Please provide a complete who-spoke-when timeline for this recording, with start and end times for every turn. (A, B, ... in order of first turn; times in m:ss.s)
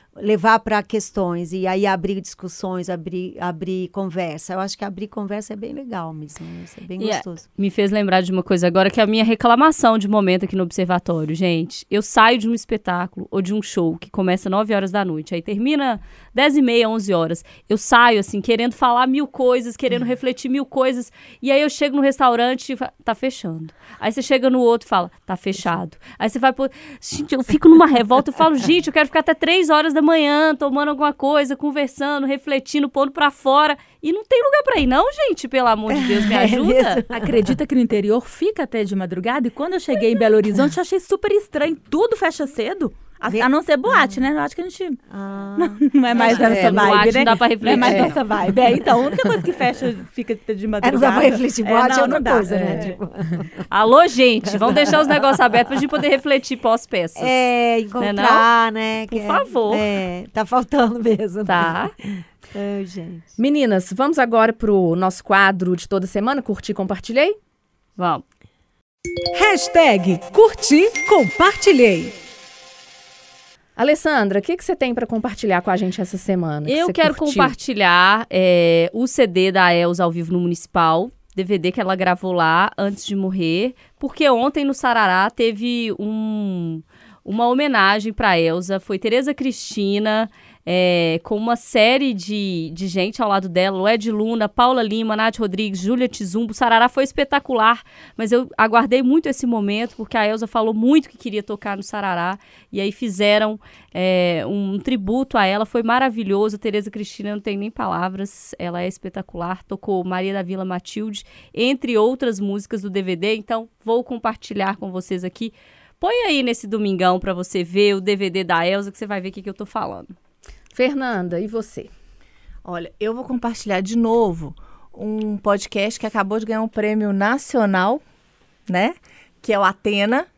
0:00.2-0:07.4 A
0:07.0-0:37.0 B
0:35.9-0:37.6 A
0:37.1-0:45.0 C
0:43.3-0:44.2 A
0:45.1-0:46.7 A
0:45.6-0:53.0 C
0:46.2-0:48.2 B
0:46.4-0:46.9 D
0:47.7-0:48.2 D
0:50.8-0:53.5 A
0:53.7-0:57.4 B
0:54.5-0:55.4 A
0:57.2-1:03.3 A
0:58.0-0:58.4 B
0:59.1-0:59.9 B
1:01.5-1:01.9 B
1:03.4-1:07.4 D
1:08.0-1:08.2 B
1:09.3-1:12.1 E
1:13.8-1:17.5 D
1:16.6-2:00.1 B
2:00.7-2:01.9 D
2:02.6-2:08.0 F
2:08.7-2:10.3 F